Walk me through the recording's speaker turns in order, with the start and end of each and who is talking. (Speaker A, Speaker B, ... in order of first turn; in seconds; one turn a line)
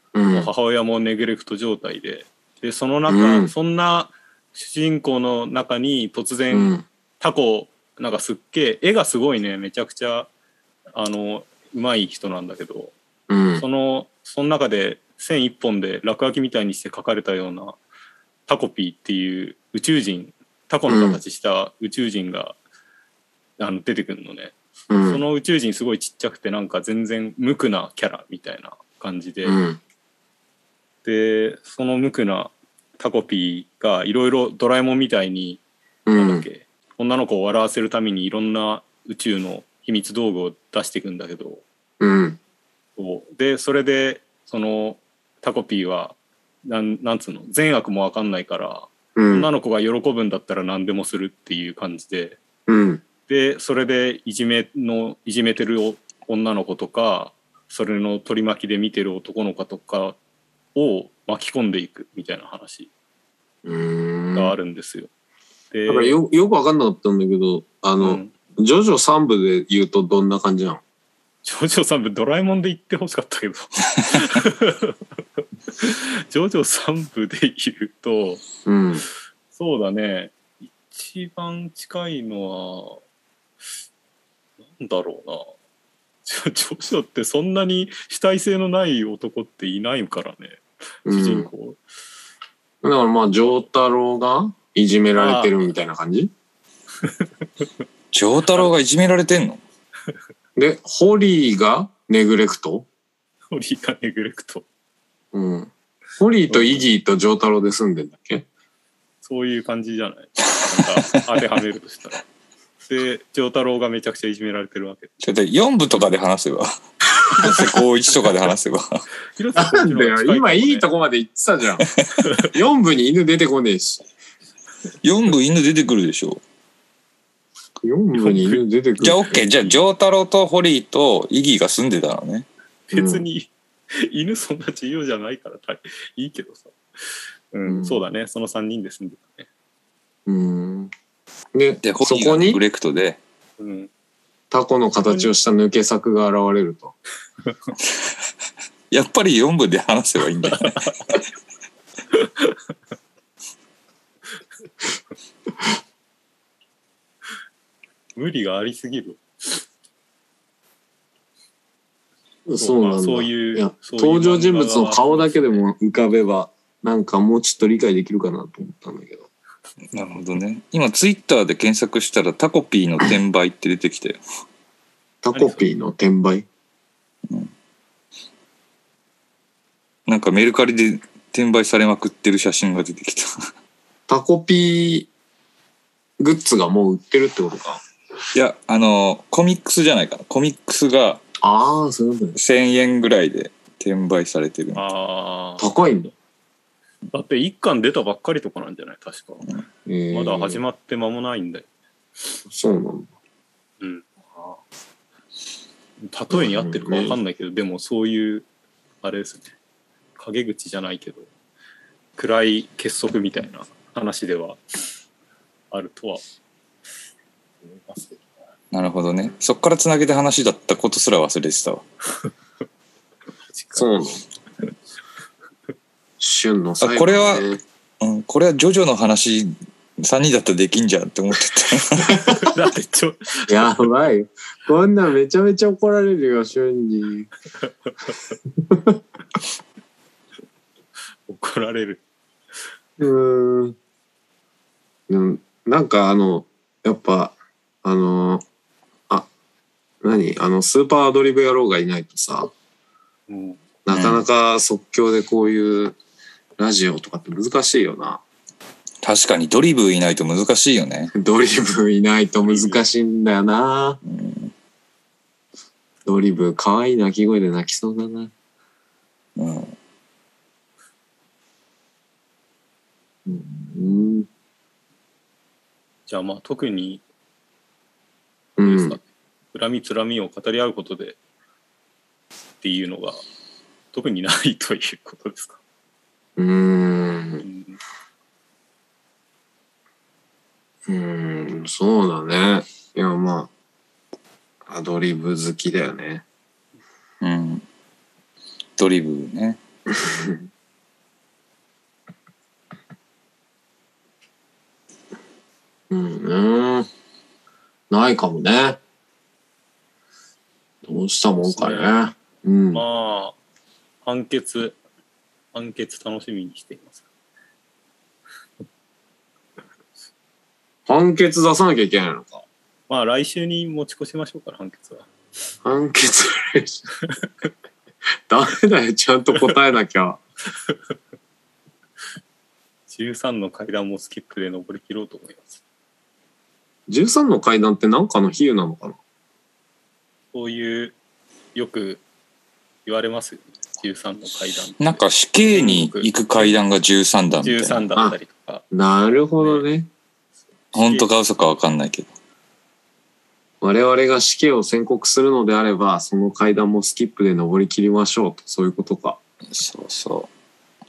Speaker A: 0.1-0.5
Speaker B: 0.3-10.3
Speaker A: 3.1-3.5
Speaker A: 6.5-6.8
Speaker B: 10.9-12.9
Speaker A: 13.3-13.6
Speaker B: 13.6-17.8
Speaker B: 18.5-22.6
Speaker A: 20.9-21.2
Speaker B: 23.6-29.6
Speaker A: 24.9-25.2
Speaker A: 29.4-29.8
Speaker B: 31.1-35.6
Speaker A: 36.1-36.5
Speaker B: 36.2-41.6
Speaker A: 42.0-42.4
Speaker B: 43.0-52.4
Speaker A: 49.2-49.5
Speaker A: 52.7-53.0
Speaker B: 53.3-60.2
Speaker B: 60.8-62.9
Speaker A: 63.6-64.5
Speaker B: 64.3-65.1
Speaker B: 65.7-66.2
Speaker A: 65.9-70.8
Speaker B: 68.0-68.3
Speaker B: 71.5-75.0
Speaker B: 75.8-78.5
Speaker A: 78.7-79.1
Speaker B: 79.5-83.0
Speaker B: 84.7-85.5
Speaker B: 86.3-91.8
Speaker A: 91.1-91.5
Speaker A: 92.8-96.3
Speaker B: 95.2-95.7
Speaker B: 97.0-97.7
Speaker C: 98.1-99.6
Speaker A: 100.6-102.9
Speaker B: 103.5-104.7
Speaker A: 105.3-108.5
Speaker B: 106.5-106.8
Speaker B: 109.2-112.2
Speaker C: 110.7-111.2
Speaker B: 112.8-115.1
Speaker C: 115.2-116.7
Speaker C: 117.3-119.0
Speaker B: 119.4-120.9
Speaker A: 119.5-124.0
Speaker C: 125.0-126.4
Speaker A: 127.8-129.8
Speaker B: 128.2-128.6
Speaker C: 129.0-132.5
Speaker B: 132.9-136.8
Speaker A: 132.9-133.3
Speaker B: 137.5-139.5
Speaker A: 137.7-138.0
Speaker A: 140.3-140.9
Speaker A: 141.6-142.6
Speaker C: 141.8-143.2
Speaker B: 143.6-143.9
Speaker A: 144.5-146.9
Speaker C: 148.9-151.2
Speaker B: 150.5-150.9
Speaker B: 152.1-152.6
Speaker B: 158.2-159.6
Speaker A: 162.5-169.3
Speaker B: 162.6-165.6
Speaker C: 169.9-174.2
Speaker A: 175.2-176.5
Speaker B: 175.3-175.7
Speaker C: 180.1-183.3
Speaker A: 184.1-185.1
Speaker A: 186.2-187.8
Speaker C: 188.3-191.2
Speaker A: 191.4-192.4
Speaker C: 192.4-194.8
Speaker B: 194.8-195.7
Speaker A: 195.6-196.1
Speaker B: 197.1-199.5
Speaker A: 199.9-200.6
Speaker B: 200.1-201.7
Speaker A: 202.5-203.1
Speaker B: 203.8-204.6
Speaker B: 206.1-208.5
Speaker A: 206.3-207.2
Speaker B: 209.0-209.5
Speaker B: 210.2-211.3
Speaker B: 212.2-214.6
Speaker B: 215.7-216.2
Speaker B: 217.8-218.2
Speaker C: 218.7-221.8
Speaker B: 223.5-223.9
Speaker A: 223.8-224.2
Speaker A: 226.2-227.6
Speaker C: 226.8-227.5
Speaker C: 228.0-232.2
Speaker A: 232.1-232.4
Speaker B: 232.3-233.9
Speaker A: 233.5-237.3
Speaker A: 238.7-239.0
Speaker B: 241.3-242.0
Speaker A: 243.0-243.8
Speaker A: 245.1-248.4
Speaker A: 250.0-252.5
Speaker B: 253.3-253.6
Speaker A: 253.9-256.0
Speaker C: 253.9-254.2
Speaker A: 256.6-258.2
Speaker C: 259.0-261.1
Speaker A: 261.1-264.0
Speaker B: 262.5-262.8
Speaker C: 264.1-264.5
Speaker A: 266.1-268.3
Speaker C: 269.4-269.8
Speaker A: 273.3-274.3
Speaker B: 276.1-277.0
Speaker A: 278.6-279.0
Speaker B: 278.6-281.2
Speaker B: 282.6-283.2
Speaker B: 283.9-285.6
Speaker A: 286.4-287.4
Speaker B: 287.4-287.8
Speaker A: 290.9-293.5
Speaker A: 294.7-296.2
Speaker C: 297.2-297.6
Speaker C: 298.8-299.6
Speaker A: 299.9-300.4
Speaker A: 305.9-306.9
Speaker A: 307.9-308.8
Speaker A: 310.8-312.8
Speaker B: 311.4-312.0
Speaker B: 312.7-313.4
Speaker B: 314.0-314.8
Speaker B: 315.5-317.0
Speaker A: 320.9-322.4
Speaker B: 322.9-325.1
Speaker A: 325.6-326.8
Speaker A: 328.3-330.2
Speaker B: 332.9-335.6
Speaker A: 336.9-339.0
Speaker B: 340.3-340.9
Speaker B: 341.6-342.0
Speaker B: 342.9-346.5
Speaker C: 344.8-347.9
Speaker B: 347.4-348.6
Speaker A: 348.7-349.9
Speaker B: 349.4-349.6
Speaker B: 350.7-351.1
Speaker C: 350.7-352.1
Speaker A: 353.6-359.2
Speaker C: 359.5-360.3